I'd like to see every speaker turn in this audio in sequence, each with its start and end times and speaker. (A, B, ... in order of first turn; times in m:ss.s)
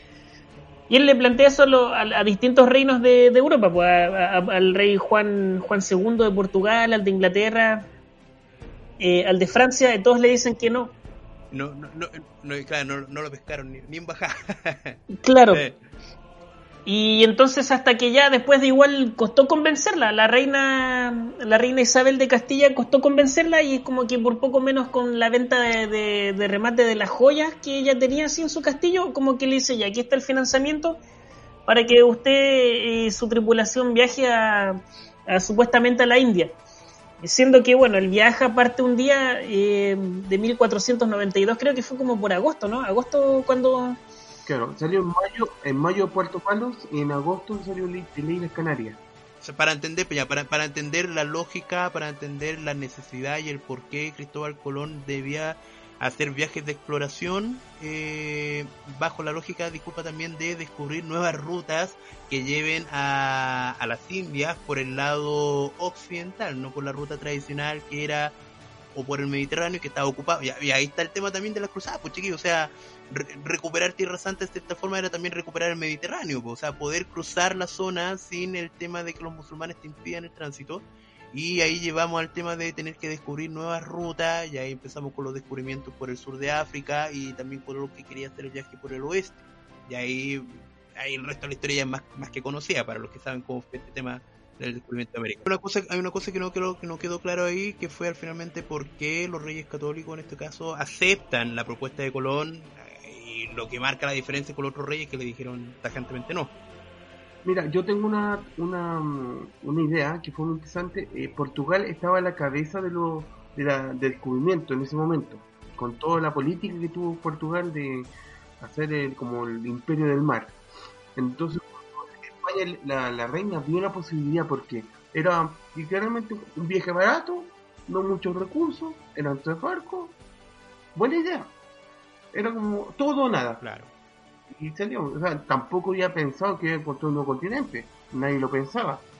0:00.9-0:07.9 A
0:09.0-0:10.9 A
0:11.5-0:15.8 B
0:15.2-0:15.6 A
0:16.8-0:31.0 A
0:31.6-0:36.5 A
0:37.2-0:44.0 A
0:44.4-0:49.0 C
0:49.4-1:08.3 B
1:08.9-1:46.5 B
1:47.4-2:00.6 C
2:01.2-2:10.2 C
2:10.9-2:11.5 C
2:12.3-2:13.6 C
2:13.6-2:13.9 B
2:14.5-2:19.0 C